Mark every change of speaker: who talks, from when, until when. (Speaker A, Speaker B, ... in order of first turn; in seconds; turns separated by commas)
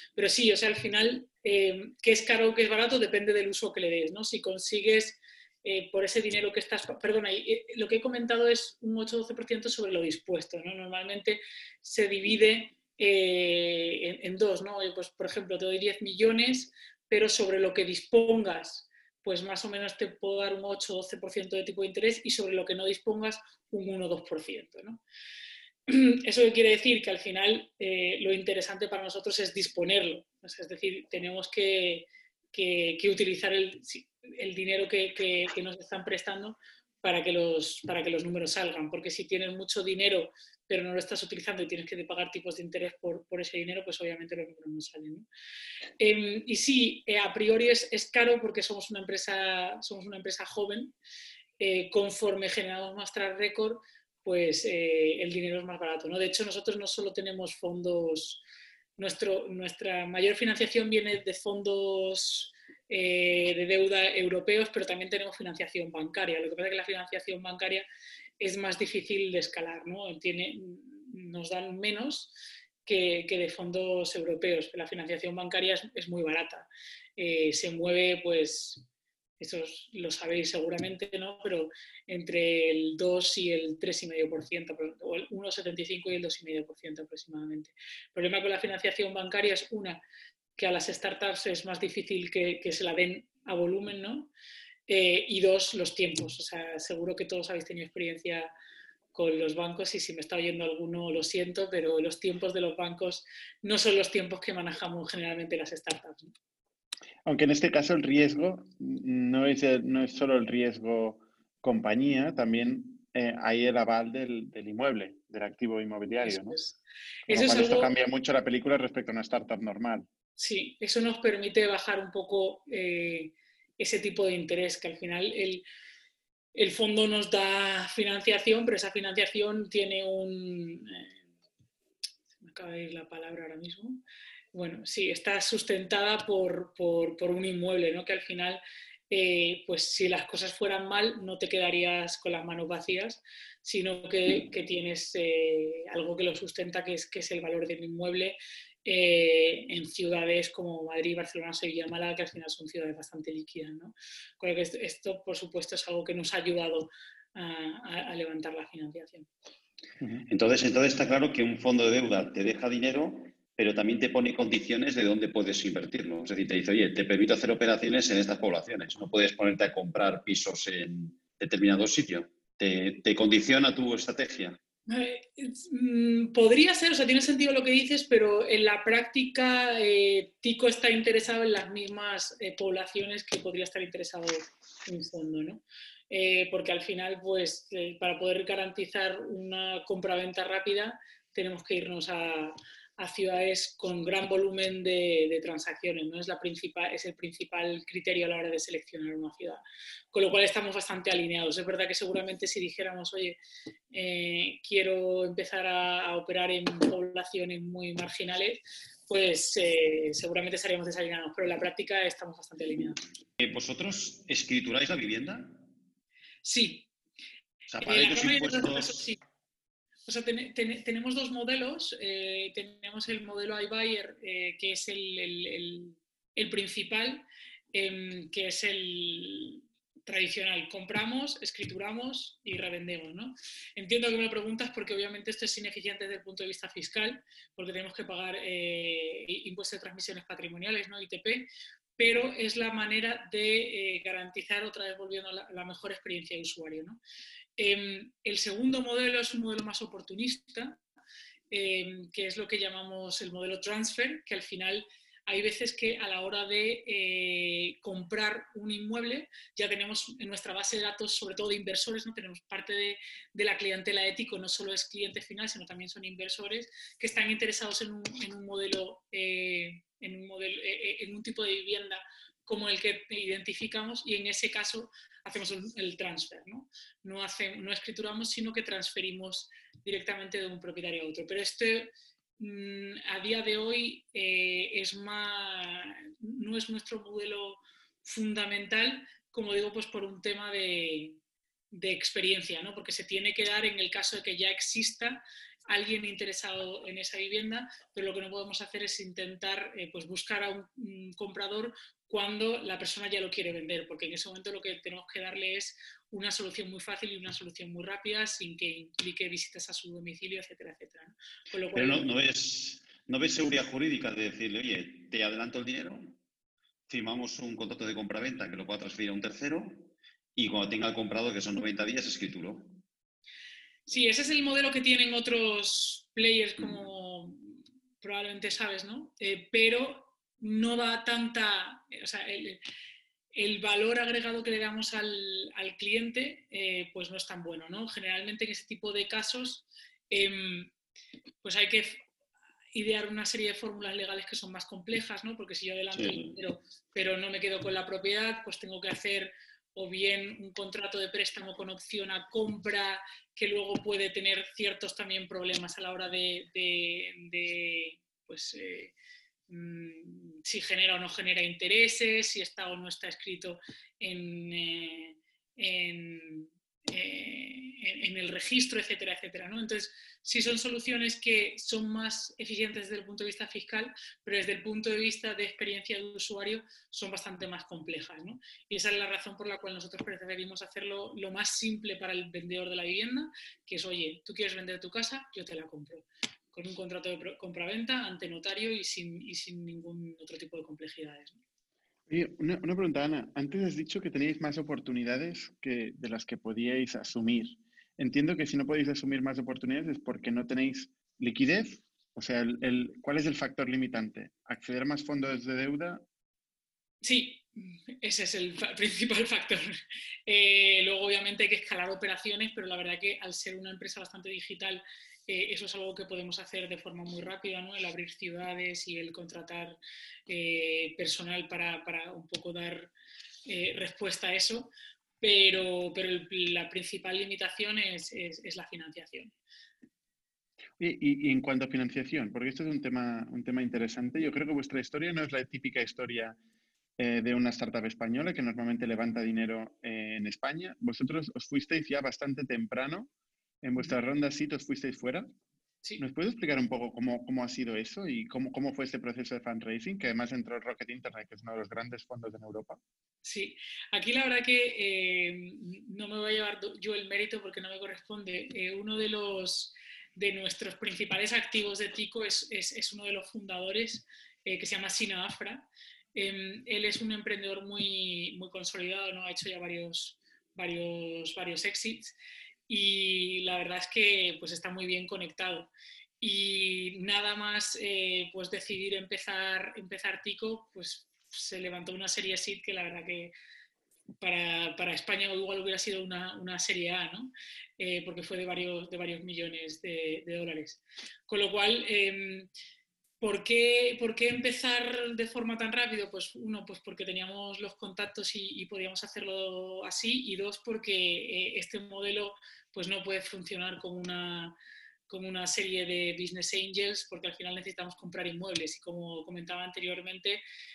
Speaker A: 0.1-25.0, Speaker A: 25.9-45.3, Speaker A: 46.0-50.9, Speaker A: 51.6-58.4, Speaker A: 59.0-67.8, Speaker A: 68.4-72.3, Speaker A: 72.8-78.8, Speaker A: 79.4-90.0, Speaker A: 90.5-94.3, Speaker A: 94.9-98.5, Speaker A: 99.1-106.3, Speaker B: 107.2-116.6, Speaker A: 116.2-117.9, Speaker B: 117.3-120.0, Speaker A: 120.4-125.6, Speaker A: 126.5-131.2, Speaker A: 132.4-134.0, Speaker A: 134.5-159.3, Speaker C: 160.3-174.6, Speaker A: 174.9-203.4, Speaker A: 203.9-213.0, Speaker C: 213.4-215.6, Speaker A: 216.4-216.9, Speaker C: 217.7-219.0, Speaker A: 217.8-219.2, Speaker A: 220.1-247.0, Speaker A: 247.6-250.8, Speaker A: 251.5-291.2, Speaker A: 291.7-312.1, Speaker C: 311.7-316.1, Speaker C: 316.9-322.8, Speaker A: 323.9-327.4, Speaker A: 328.0-332.6, Speaker A: 333.3-340.7, Speaker A: 341.4-342.0, Speaker A: 342.7-358.9, Speaker C: 345.9-346.4, Speaker A: 359.5-391.4, Speaker B: 392.1-406.0, Speaker A: 407.0-419.8, Speaker A: 420.3-422.9, Speaker A: 423.4-429.3, Speaker B: 430.8-436.4, Speaker B: 437.0-443.1, Speaker B: 443.6-445.3, Speaker B: 446.0-452.8, Speaker A: 453.2-472.1, Speaker A: 472.7-475.7, Speaker A: 476.2-483.3, Speaker A: 484.2-492.5, Speaker A: 493.2-504.6, Speaker A: 505.1-510.4